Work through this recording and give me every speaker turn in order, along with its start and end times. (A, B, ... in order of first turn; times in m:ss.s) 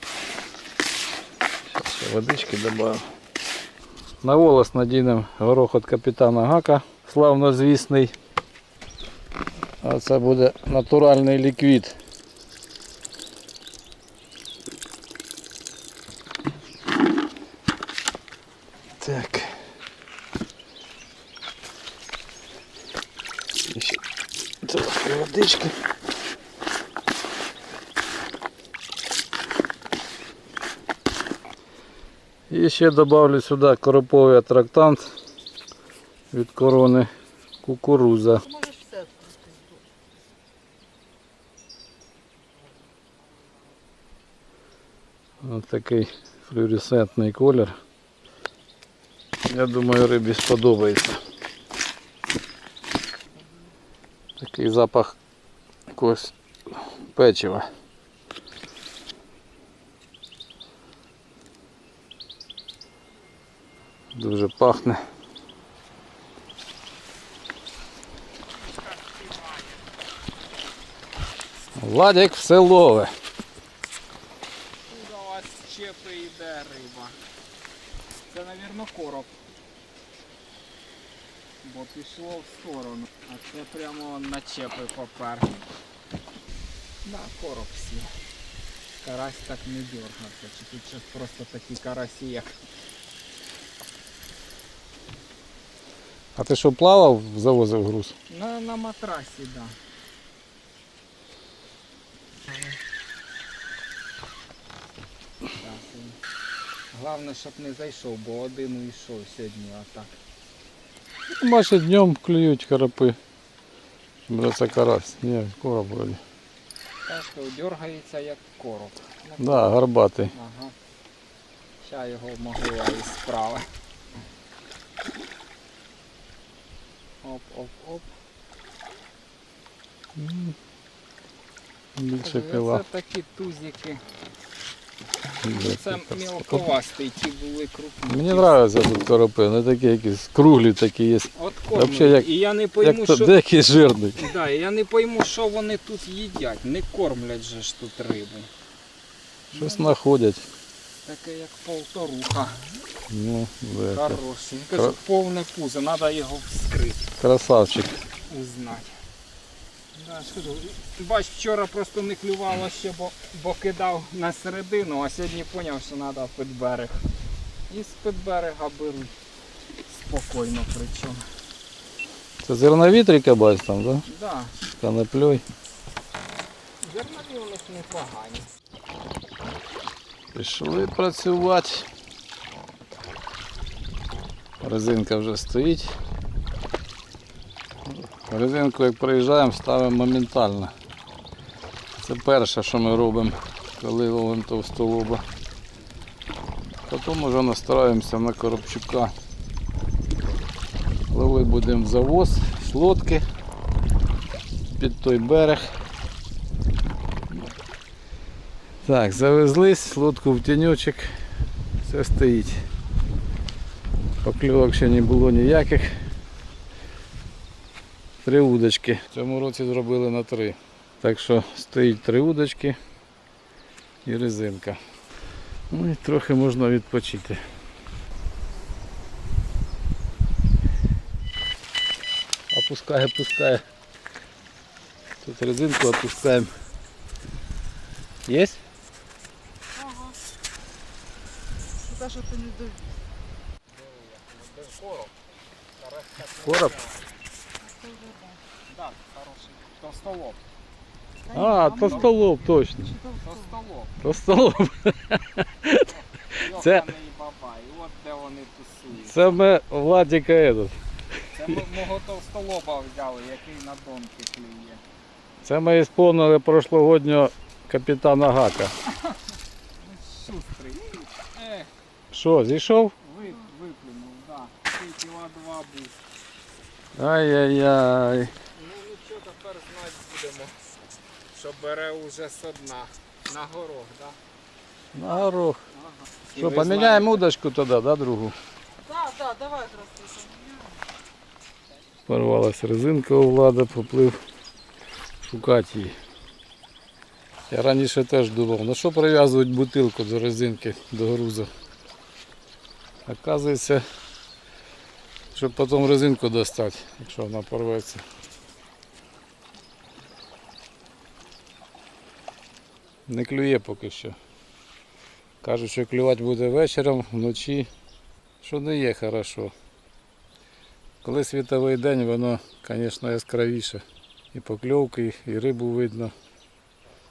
0:01.7-0:03.0 A
0:04.2-0:08.1 A
0:09.8-0:12.0 A
0:19.0-0:19.6 A
0:23.7-0:24.0 A
0:24.6-0:25.8 A
0:32.5-0:35.0 A
0:36.3-0:37.1 A
0:37.6-0:38.5 A
0:38.5-0:39.8 B
0:45.4-0:47.8 A
0:49.4-0:51.2 A
0:54.4-0:55.2 A
0:55.9-0:57.7 A
1:04.1-1:05.0 A
1:08.6-1:09.8 C
1:11.8-1:13.1 A
1:14.9-1:17.2 C
1:18.3-1:19.3 C
1:21.6-1:25.7 C
1:27.0-1:28.1 C
1:29.0-1:32.5 C
1:36.4-1:38.1 A
1:38.3-1:39.8 C
1:45.5-1:46.2 C
1:46.9-1:50.1 C
1:51.4-1:53.2 A
1:54.3-1:56.2 A
1:57.1-1:59.8 C
1:59.4-2:00.3 A
2:00.3-2:00.7 C
2:01.8-2:03.6 C
2:07.2-2:08.1 C
2:10.2-2:10.5 A
2:12.0-2:12.8 A
2:12.2-2:14.0 C
2:15.4-2:16.6 A
2:15.5-2:18.6 C
2:18.1-2:22.3 A
2:21.3-2:23.4 C
2:22.8-2:24.2 A
2:24.2-2:28.5 C
2:29.5-2:29.9 C
2:29.5-2:30.5 A
2:31.0-2:32.8 C
2:33.1-2:34.2 A
2:33.9-2:37.1 C
2:37.2-2:38.0 A
2:38.3-2:38.9 C
2:40.0-2:47.0 C
2:47.7-2:49.1 C
2:49.9-2:51.2 C
2:52.4-2:54.0 A
2:54.0-2:54.6 C
2:54.8-2:55.4 A
2:56.8-2:58.5 C
3:00.3-3:01.8 A
3:04.6-3:05.9 A
3:08.3-3:10.7 A
3:12.0-3:15.2 A
3:16.9-3:19.1 A
3:21.1-3:23.2 A
3:24.8-3:25.7 A
3:28.8-3:31.1 A
3:31.8-3:32.6 A
3:34.2-3:35.9 A
3:38.2-3:42.8 A
3:44.0-3:44.8 A
3:45.7-3:47.4 A
3:52.5-3:53.6 A
3:55.2-3:56.5 A
3:58.2-3:58.6 A
4:01.8-4:03.0 B
4:03.7-4:05.2 C
4:05.8-4:07.1 C
4:06.4-4:06.7 A
4:07.6-4:08.4 B
4:08.7-4:10.4 C
4:11.3-4:12.0 B
4:11.3-4:13.0 A
4:12.9-4:13.2 B
4:13.2-4:14.0 C
4:14.0-4:16.9 A
4:16.3-4:19.3 C
4:19.0-4:20.8 A
4:21.3-4:24.8 C
4:25.4-4:28.7 A
4:28.8-4:31.7 C
4:32.1-4:32.9 A
4:33.0-4:36.0 C
4:36.9-4:38.3 A
4:38.5-4:40.5 C
4:41.3-4:44.2 C
4:44.9-4:45.6 A
4:45.7-4:47.2 C
4:46.4-4:48.3 A
4:48.9-4:50.8 B
4:52.1-4:54.2 A
4:55.2-4:55.9 A
4:57.5-5:01.5 A
5:03.0-5:03.8 A
5:05.3-5:08.0 A
5:13.1-5:14.2 A
5:15.4-5:17.7 A
5:18.4-5:19.5 A
5:21.0-5:26.1 A